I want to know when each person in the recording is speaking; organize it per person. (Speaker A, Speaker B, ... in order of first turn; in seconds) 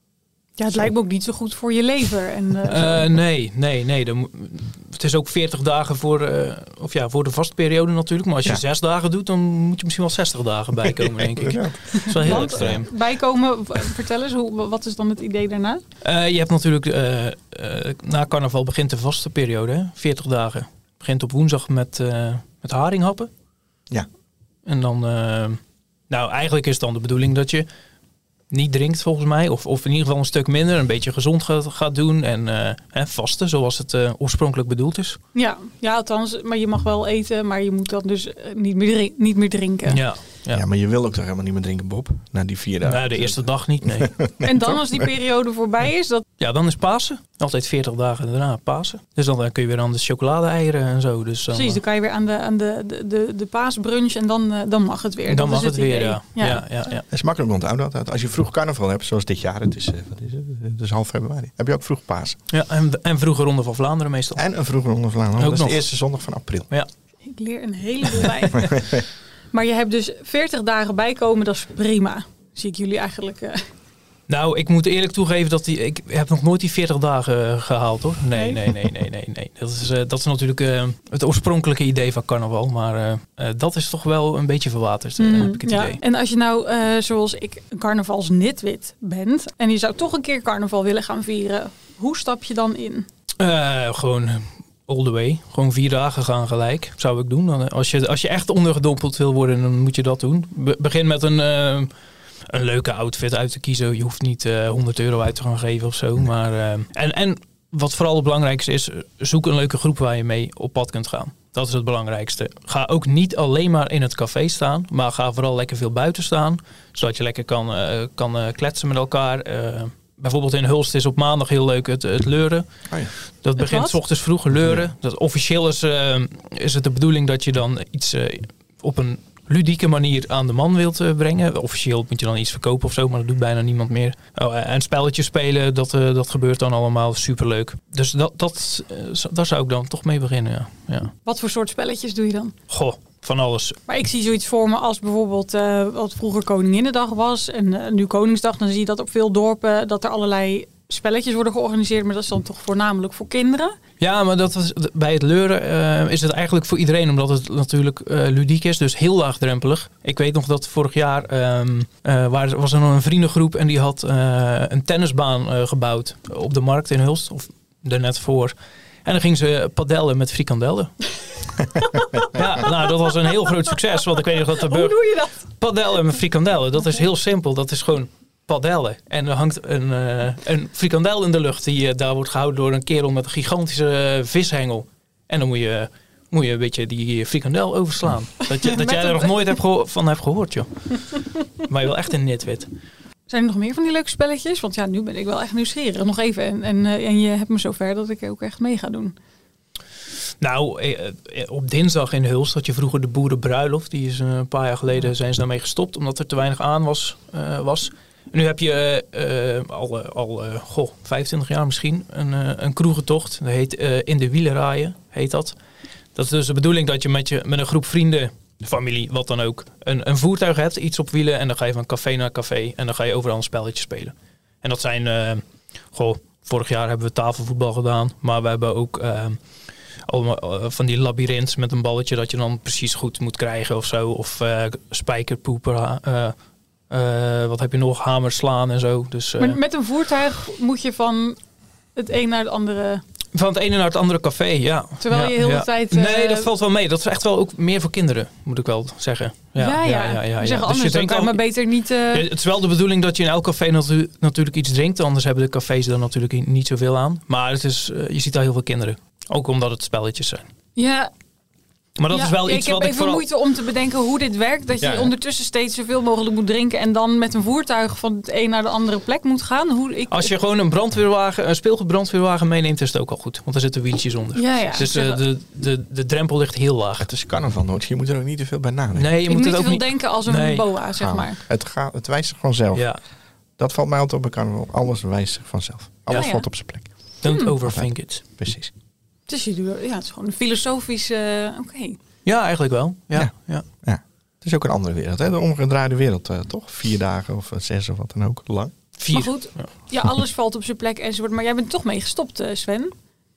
Speaker A: 0.6-3.0, 12.2-15.8, 35.3-40.0, 44.4-46.2, 51.5-56.6, 67.3-73.6, 78.3-78.6, 85.2-93.1, 123.6-123.9, 141.3-142.5, 143.9-153.7, 174.6-175.5, 188.7-189.3, 193.3-199.2, 239.4-241.4, 241.9-243.0, 245.0-246.5, 249.6-252.3, 260.8-261.1, 262.1-270.3, 274.4-275.2, 279.3-281.4, 286.1-286.4, 287.2-287.6, 289.3-292.0, 299.1-302.9
Speaker B: 2.7-12.9, 16.0-23.3, 24.6-27.7, 28.5-35.2, 39.9-40.6, 42.8-44.1, 46.4-51.8, 55.3-57.1, 62.5-64.4, 65.4-65.9, 74.3-86.0, 93.4-101.9, 102.5-141.1, 142.7-143.8, 154.0-171.1, 172.3-192.7, 200.4-215.6, 216.2-229.4, 230.1-236.4, 236.9-239.6, 243.3-251.4, 252.1-260.5, 262.0-263.2, 264.8-265.1, 270.1-277.1, 278.9-280.7, 282.7-283.0, 287.2-288.2, 292.2-293.6, 299.0-299.7
Speaker C: 10.8-12.8, 40.5-45.1, 57.1-62.4, 64.4-66.7, 68.6-69.0, 124.5-124.9, 277.0-279.1, 281.0-282.9, 283.6-286.9, 287.6-288.7, 293.1-298.7